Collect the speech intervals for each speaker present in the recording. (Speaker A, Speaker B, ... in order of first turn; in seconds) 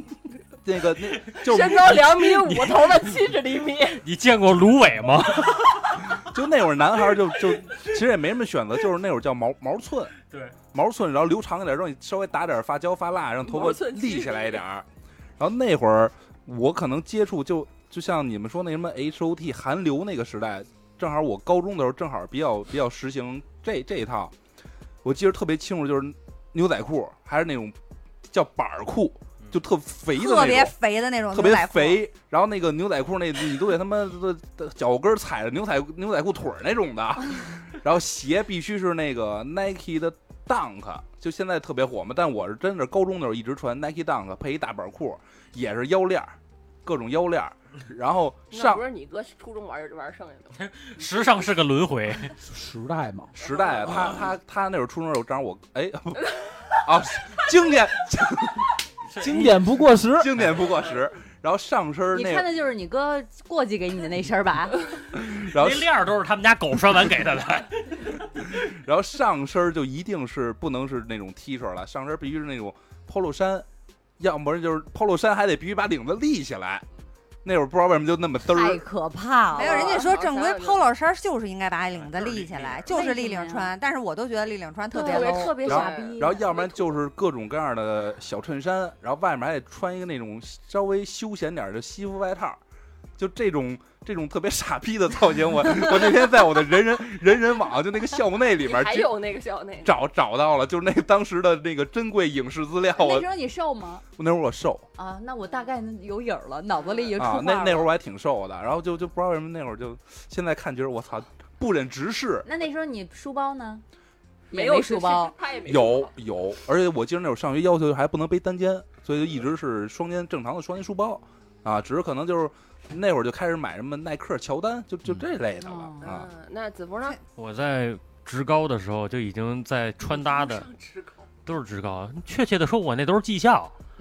Speaker A: 0.6-2.3, 6.1-10.2, 10.7-14.9, 15.4-24.3, 25.0-27.8, 28.3-30.8, 31.3-48.8, 53.4-58.8, 60.2-62.5, 65.2-65.9, 68.4-73.7, 74.2-76.8, 77.4-78.8, 82.2-82.8, 85.6-92.6, 93.2-99.2, 99.8-103.3, 104.2-104.9, 107.2-112.5, 115.7-126.3
Speaker B: 1.4-4.0, 13.4-14.6, 48.5-50.6, 53.4-53.8, 79.5-80.9, 85.0-87.0, 98.6-100.0, 106.9-107.1, 114.5-116.1, 126.0-127.2, 130.0-131.3
Speaker C: 1.8-3.0, 4.0-6.1, 10.3-10.6, 50.6-52.4, 59.1-59.6, 65.4-68.5, 82.2-82.8, 127.4-130.7, 131.4-133.7
Speaker D: 30.1-32.0, 79.6-85.6
Speaker E: 52.4-53.3, 59.2-60.4
Speaker F: 62.1-64.8, 78.5-80.1, 82.9-83.7, 84.9-86.5, 103.0-104.0, 105.0-107.9, 112.5-113.8, 114.5-115.3, 125.6-126.1